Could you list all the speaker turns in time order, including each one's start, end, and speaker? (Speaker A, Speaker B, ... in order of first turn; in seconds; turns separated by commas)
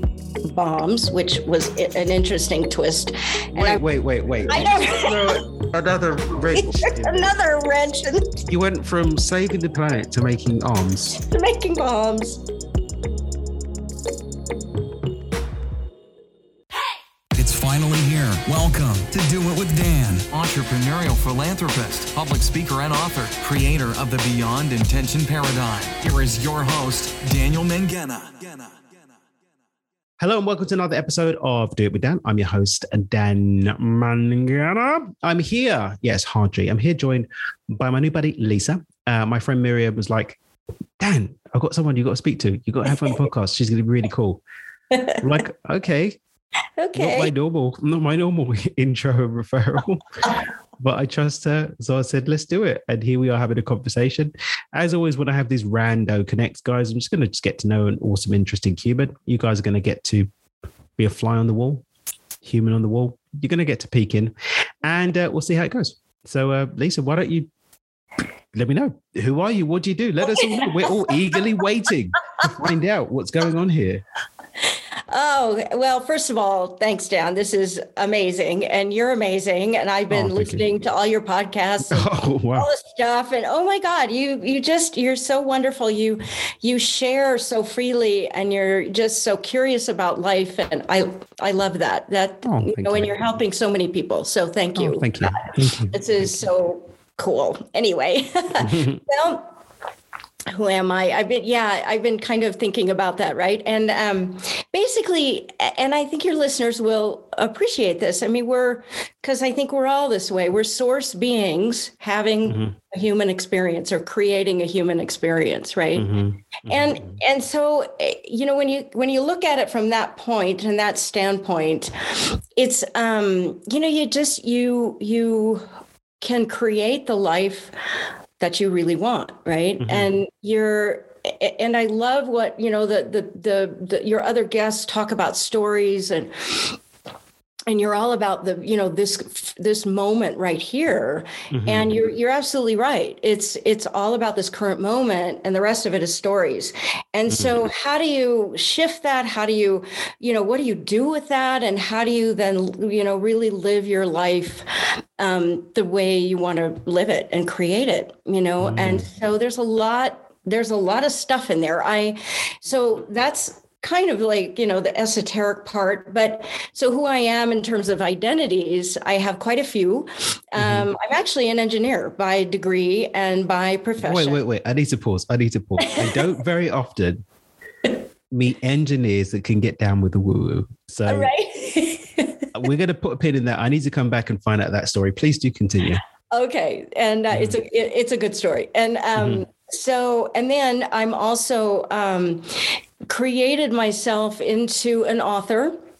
Speaker A: 0.4-3.8, Speaker B: 3.5-7.3, Speaker A: 4.5-5.5, Speaker A: 6.5-8.4, Speaker B: 8.5-11.2, Speaker A: 11.2-12.4, Speaker C: 17.4-28.7, Speaker B: 30.2-40.4, Speaker B: 41.0-44.4, Speaker A: 44.9-45.2, Speaker B: 45.2-46.2, Speaker A: 46.8-47.3, Speaker B: 46.9-60.3, Speaker B: 61.0-61.9, Speaker B: 62.4-67.5, Speaker B: 68.5-74.0, Speaker A: 70.5-70.9, Speaker A: 75.1-99.5, Speaker B: 80.1-80.6, Speaker B: 81.9-82.7, Speaker B: 92.4-93.1, Speaker B: 94.8-96.0, Speaker B: 98.6-99.0, Speaker A: 100.5-116.1, Speaker B: 112.5-112.7, Speaker B: 116.0-117.2, Speaker A: 116.7-125.6, Speaker A: 126.2-127.7, Speaker A: 128.4-136.8, Speaker B: 129.8-130.1, Speaker A: 137.7-154.6, Speaker B: 141.5-141.9, Speaker A: 155.2-174.4, Speaker B: 158.6-159.0, Speaker B: 170.6-170.9, Speaker B: 174.0-177.2, Speaker A: 175.8-176.2, Speaker B: 178.3-181.3, Speaker A: 181.1-182.6, Speaker B: 182.5-186.0, Speaker A: 186.3-195.8, Speaker B: 187.3-187.6, Speaker B: 189.2-189.4